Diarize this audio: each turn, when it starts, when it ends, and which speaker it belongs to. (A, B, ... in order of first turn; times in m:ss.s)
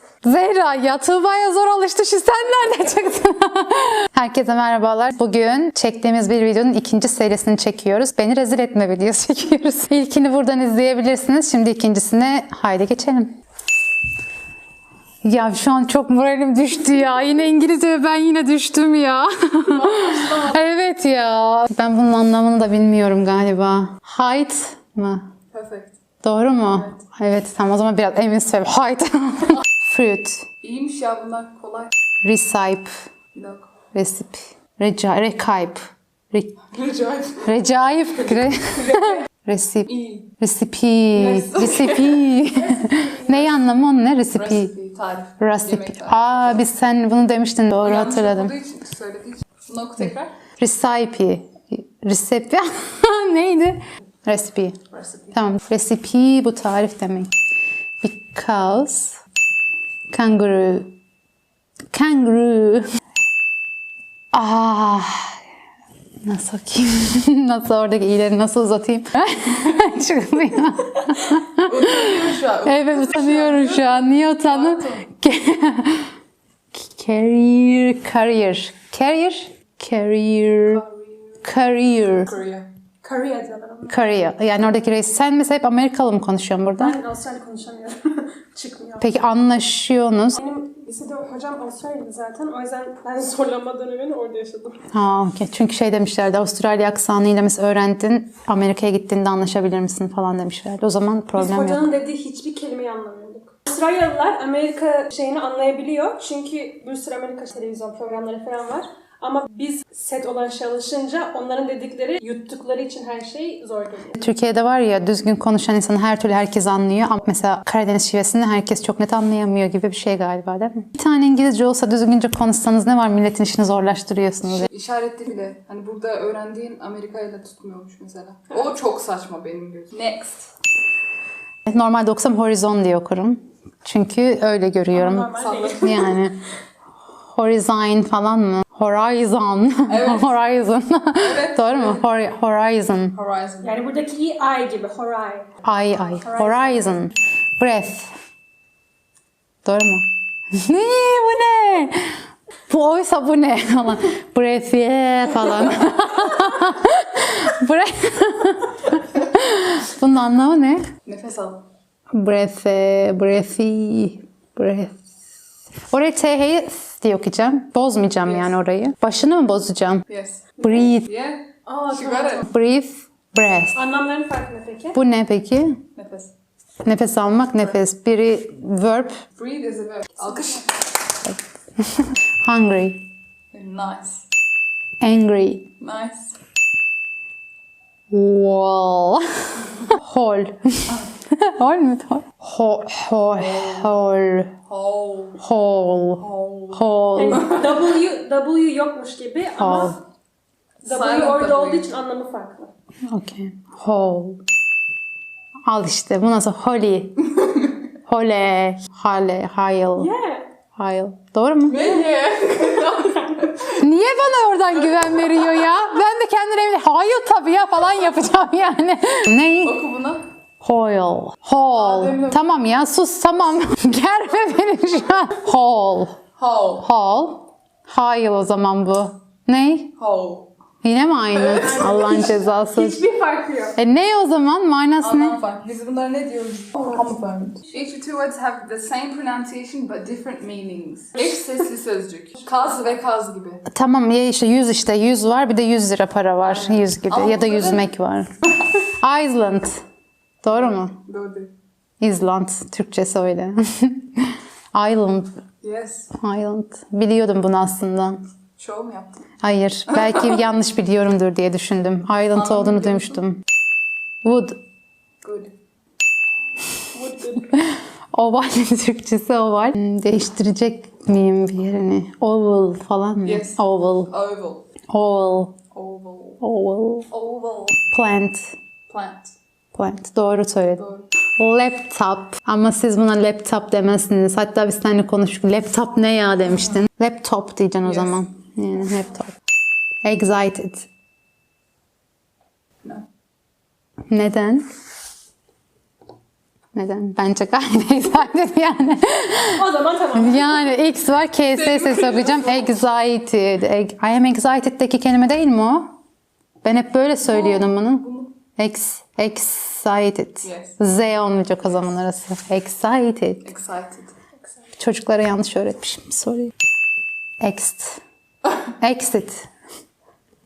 0:00.2-0:13.3 A
0:15.2-0:25.3 A
0:19.7-0:20.6 B
0:25.5-0:26.0 B
0:26.2-0:30.5 A
0:30.6-0:31.9 B
0:32.2-0:32.9 A
0:33.3-0:33.7 B
0:33.9-0:35.8 A
0:36.3-0:36.6 A
0:36.7-0:37.5 B
0:37.4-0:44.7 A
0:38.8-0:39.2 B
0:39.9-0:40.3 B
0:41.1-0:42.3 B
0:44.3-0:46.7 B
0:45.4-0:48.6 A
0:47.8-0:50.3 B
0:50.6-0:54.8 A
0:54.9-0:55.4 B
0:55.3-0:57.3 A
0:58.0-0:59.2 A
1:00.1-1:00.9 A
1:01.9-1:02.8 A
1:04.3-1:05.4 A
1:06.2-1:16.1 A
1:11.6-1:15.1 B
1:16.7-1:20.8 A
1:20.7-1:21.4 B
1:21.4-1:22.3 A
1:22.2-1:22.7 B
1:23.0-1:24.3 C
1:23.9-1:27.0 A
1:26.8-1:29.1 C
1:29.0-1:30.4 A
1:30.3-1:34.8 C
1:34.9-1:41.9 A
1:41.4-1:54.2 C
1:54.2-2:04.7 A
2:04.5-2:10.5 B
2:11.7-2:16.4 A
2:14.9-2:16.2 C
2:15.4-2:16.1 B
2:17.2-2:23.2 A
2:19.9-2:20.4 B
2:21.2-2:22.0 B
2:23.1-2:23.9 B
2:23.6-2:25.5 C
2:25.6-2:28.1 A
2:26.3-2:26.8 C
2:29.6-2:40.8 A
2:41.1-2:41.6 B
2:42.1-2:45.0 A
2:45.9-2:50.1 A
2:48.2-2:48.5 B
2:50.1-2:52.5 B
2:50.6-2:51.1 A
2:51.7-2:52.5 C
2:52.4-2:53.8 A
2:53.7-2:55.0 C
2:55.0-2:55.8 A
2:56.0-2:56.3 B
2:56.8-2:59.2 A
2:59.4-3:00.7 B
3:01.2-3:03.0 A
3:03.5-3:04.2 B
3:05.0-3:05.7 A
3:05.8-3:06.4 B
3:08.1-3:14.5 A
3:13.4-3:13.9 B
3:14.7-3:15.4 B
3:15.4-3:17.5 A
3:16.2-3:17.8 B
3:17.2-3:20.0 C
3:19.6-3:20.0 A
3:20.8-3:21.9 B
3:20.8-3:22.7 C
3:23.1-3:24.4 A
3:25.7-3:27.2 A
3:28.1-3:30.1 A
3:30.0-3:30.5 C
3:30.8-3:32.0 A
3:31.7-3:33.8 B
3:33.8-3:39.8 A
3:34.9-3:35.7 B
3:39.6-3:40.2 B
3:40.6-3:46.2 A
3:41.7-3:42.4 B
3:46.4-3:46.9 B
3:46.8-3:49.9 A
3:50.0-3:50.5 B
3:50.8-3:53.0 A
3:51.3-3:52.4 B
3:51.6-3:53.8 C
3:53.8-3:55.4 A
3:55.0-4:03.6 B
4:03.7-4:09.8 A
4:06.4-4:07.9 B
4:10.4-4:11.0 A
4:10.5-4:11.5 B
4:12.0-4:15.3 A
4:15.6-4:16.1 B
4:16.1-4:18.2 A
4:18.6-4:19.2 B
4:19.4-4:23.4 A
4:22.3-4:23.2 B
4:24.2-4:24.6 A
4:25.2-4:25.5 B
4:26.9-4:27.5 C
4:27.5-4:34.1 A
4:33.2-4:34.6 B
4:34.9-4:35.6 A
4:35.7-4:36.4 B
4:36.4-4:37.1 A
4:37.1-4:37.8 B
4:37.9-4:38.5 A
4:38.9-4:39.3 B
4:39.8-4:40.8 A
4:40.8-4:41.1 B
4:41.4-4:49.3 A
4:47.8-4:48.2 B
4:50.0-4:50.9 A
4:54.1-4:54.7 A
4:56.7-5:05.9 A
4:59.5-5:00.8 C
5:01.5-5:02.7 B
5:06.6-5:08.1 A
5:07.2-5:08.3 B
5:08.6-5:13.5 A
5:10.4-5:10.8 B
5:13.4-5:14.1 B
5:14.8-5:16.5 A
5:17.4-5:18.0 A
5:18.8-5:19.5 A